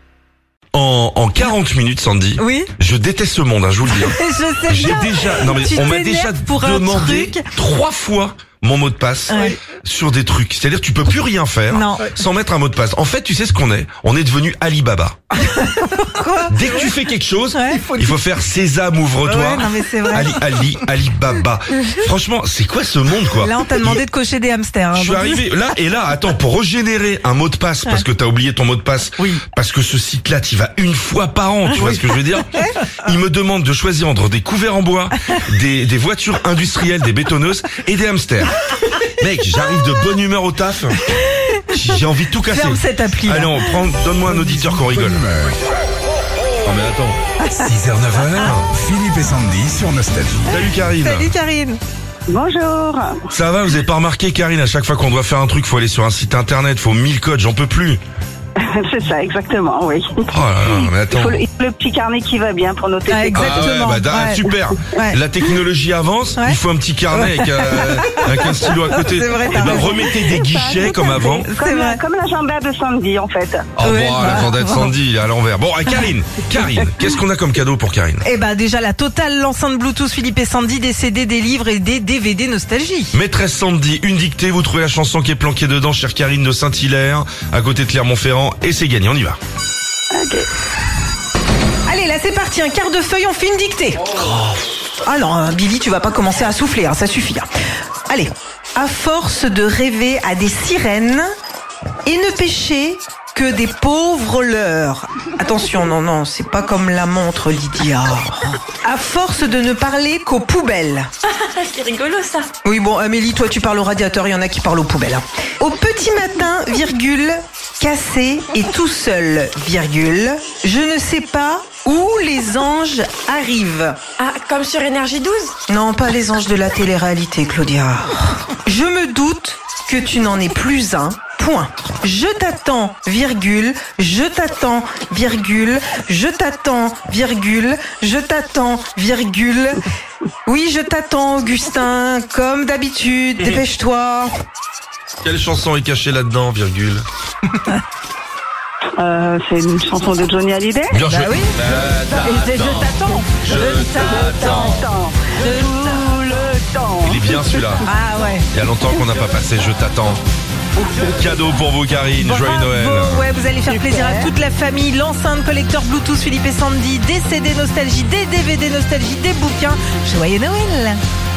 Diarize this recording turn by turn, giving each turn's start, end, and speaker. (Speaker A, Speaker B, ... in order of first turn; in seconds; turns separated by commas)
Speaker A: 0.7-15.2, Speaker B: 2.4-2.7, Speaker B: 3.9-7.5, Speaker B: 9.3-9.6, Speaker B: 11.7-12.2, Speaker B: 15.3-16.8, Speaker A: 16.5-24.0, Speaker B: 17.5-18.1, Speaker B: 19.2-20.4, Speaker B: 23.3-25.4, Speaker A: 24.9-41.0, Speaker B: 41.1-41.7, Speaker A: 41.7-45.2, Speaker B: 42.5-43.8, Speaker C: 44.3-45.6, Speaker A: 46.6-47.2, Speaker B: 47.4-47.7, Speaker C: 47.6-50.5, Speaker A: 48.4-48.7, Speaker A: 50.5-51.3, Speaker B: 51.0-51.8, Speaker D: 52.3-53.2, Speaker A: 53.3-58.0, Speaker D: 58.7-63.7, Speaker A: 60.3-61.4, Speaker B: 63.1-65.2, Speaker A: 63.3-71.5, Speaker B: 67.1-70.1, Speaker D: 70.2-73.7, Speaker B: 71.0-72.0, Speaker A: 73.8-78.2, Speaker B: 73.8-74.9, Speaker B: 78.2-83.2, Speaker A: 83.1-89.4, Speaker D: 90.1-90.5, Speaker B: 91.9-94.0, Speaker B: 95.0-97.5, Speaker B: 98.1-101.3, Speaker B: 102.1-111.1, Speaker E: 111.4-112.5, Speaker B: 112.6-124.0, Speaker E: 124.2-125.5, Speaker B: 125.7-139.8, Speaker B: 140.5-144.3, Speaker A: 145.2-147.1, Speaker D: 149.0-151.0, Speaker A: 150.9-154.8, Speaker B: 151.1-151.6, Speaker D: 152.1-157.6, Speaker B: 152.2-154.8, Speaker B: 155.4-156.0, Speaker A: 157.0-157.9, Speaker B: 157.8-158.5, Speaker A: 158.5-160.2, Speaker A: 161.0-163.3, Speaker B: 162.2-171.0, Speaker D: 163.7-164.3